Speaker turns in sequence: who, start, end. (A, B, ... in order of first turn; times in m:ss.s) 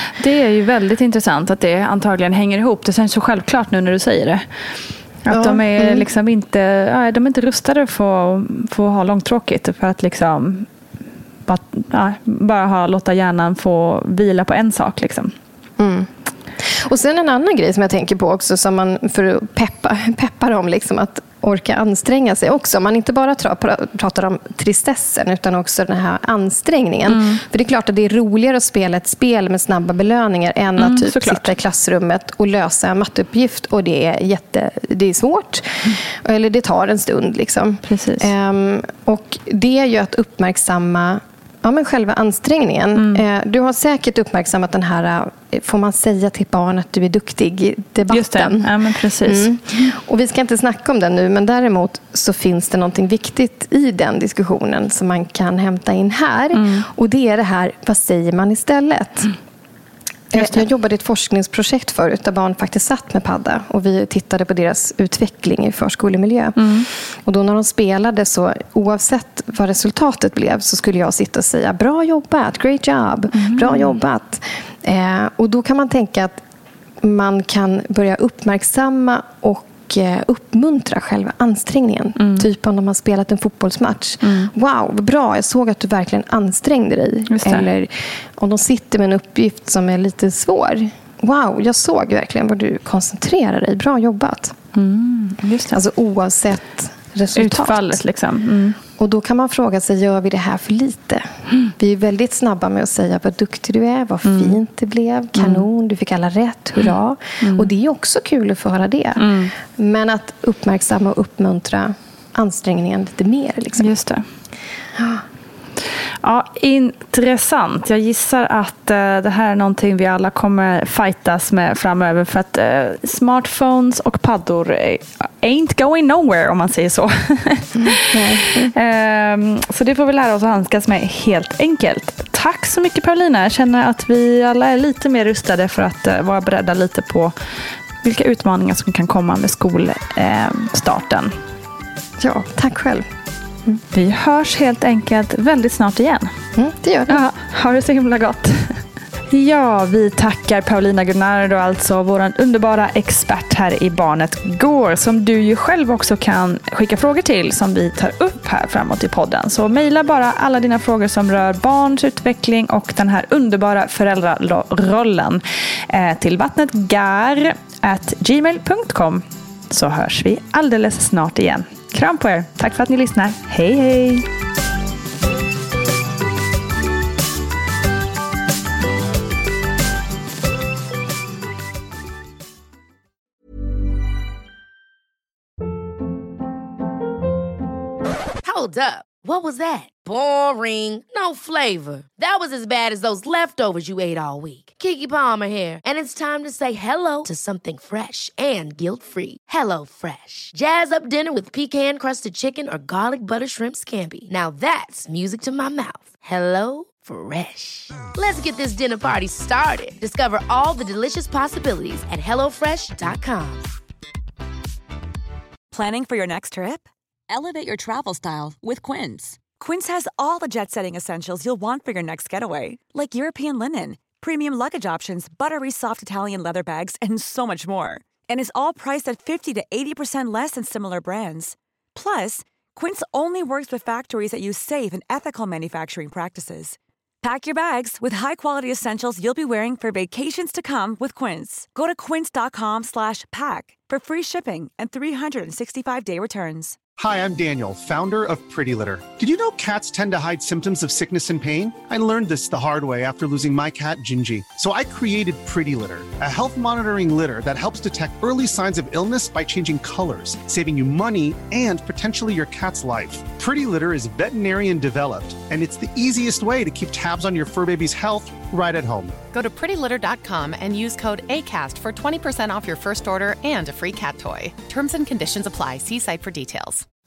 0:00.2-0:04.4 A
0:05.2-0:10.7 A
0:05.3-0:06.0 B
0:11.4-0:15.3 A
0:15.8-0:59.3 B
0:27.1-0:27.4 A
0:30.8-0:31.5 A
0:37.9-0:38.3 A
0:43.0-0:43.2 A
0:48.1-0:49.9 A
0:56.5-0:56.9 A
1:00.3-1:16.4 B
1:06.6-1:06.9 A
1:13.3-1:13.9 A
1:17.0-1:34.6 B
1:22.2-1:22.4 A
1:24.2-1:24.5 A
1:27.3-1:27.6 A
1:34.7-1:35.8 A
1:35.7-1:38.0 B
1:37.3-1:38.8 A
1:39.0-1:53.9 B
1:44.2-1:44.6 A
1:45.4-1:45.6 A
1:47.4-1:47.7 A
1:49.2-1:49.5 A
1:53.8-1:54.2 A
1:56.2-2:17.3 A
2:08.0-2:08.7 B
2:18.0-2:21.3 A
2:22.2-2:23.1 B
2:23.9-2:26.3 A
2:26.5-2:27.2 B
2:27.1-2:54.2 A
3:08.4-3:33.7 C
3:35.7-4:06.8 D
4:07.0-4:29.2 E
4:29.3-4:36.8 F